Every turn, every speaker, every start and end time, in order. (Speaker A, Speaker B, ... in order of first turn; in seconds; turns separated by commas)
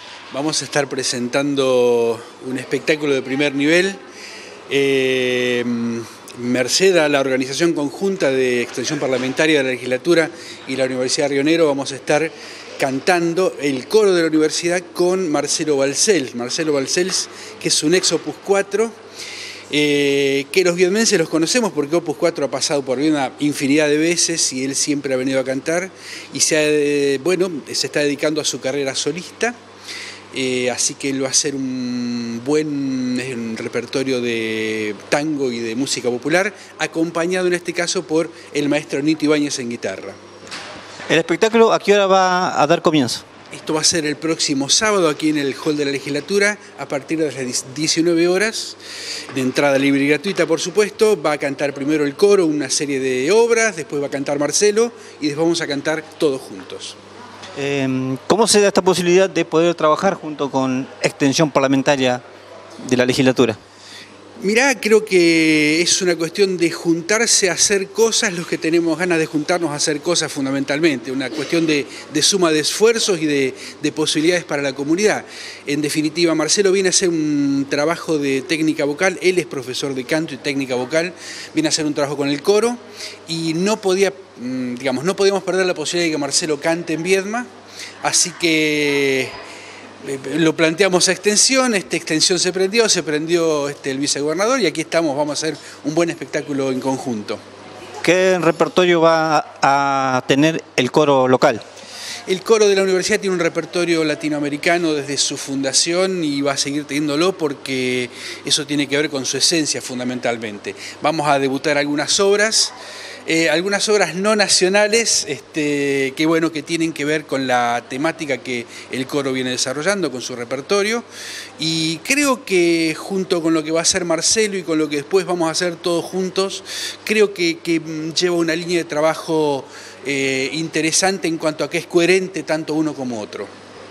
Speaker A: 0.3-4.0, Speaker A: 4.7-18.9, Speaker A: 19.7-29.6, Speaker A: 30.3-40.2, Speaker B: 41.1-43.2, Speaker A: 43.5-48.8, Speaker A: 49.3-57.0, Speaker B: 57.6-62.2, Speaker B: 62.8-63.6, Speaker A: 64.4-87.5, Speaker A: 88.0-89.3, Speaker A: 90.0-97.4, Speaker B: 98.0-101.6, Speaker A: 102.3-112.8, Speaker A: 113.3-121.1, Speaker A: 121.6-133.5